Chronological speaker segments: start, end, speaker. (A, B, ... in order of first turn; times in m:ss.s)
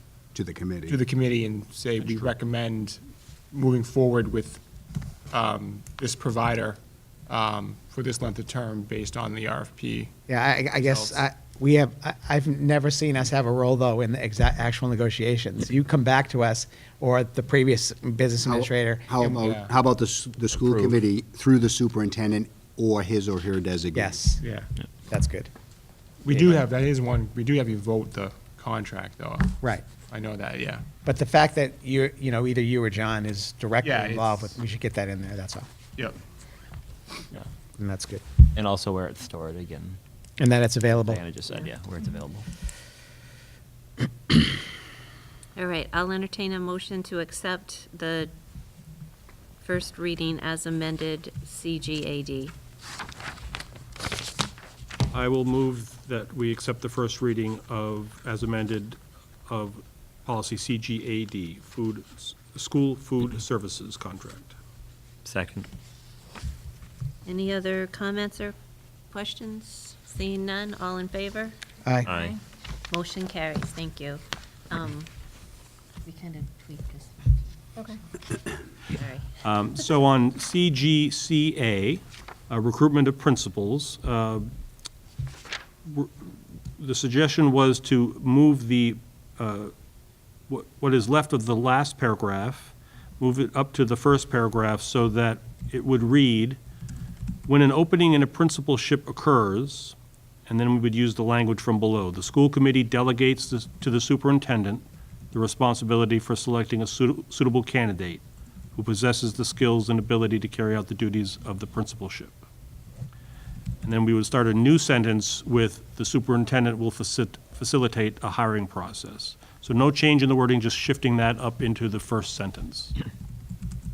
0:00.3-0:01.0 A
0:00.9-0:04.6 B
0:05.3-0:10.1 B
0:10.3-0:19.3 C
0:10.8-0:11.2 B
0:18.4-0:24.2 A
0:19.2-0:19.7 B
0:23.9-0:24.4 C
0:24.4-0:24.7 B
0:25.1-0:25.5 C
0:26.2-0:30.8 B
0:31.0-0:35.7 C
0:33.8-0:34.6 B
0:37.8-0:38.2 C
0:38.5-0:40.0 D
0:40.4-0:41.2 C
0:41.0-0:42.5 D
0:45.6-0:48.3 E
0:49.6-0:52.5 E
0:55.1-1:04.5 F
1:05.2-1:05.7 D
1:07.2-1:08.6 E
1:09.1-1:11.5 E
1:11.8-1:12.1 C
1:12.0-1:12.4 D
1:12.9-1:15.1 E
1:16.0-1:17.1 E
1:18.9-1:19.3 E
1:19.4-1:24.5 F
1:25.8-1:29.7 F
1:30.5-1:36.6 F
1:37.5-1:40.0 F
1:40.5-1:48.2 F
1:48.7-1:52.4 F
1:53.8-2:02.9 F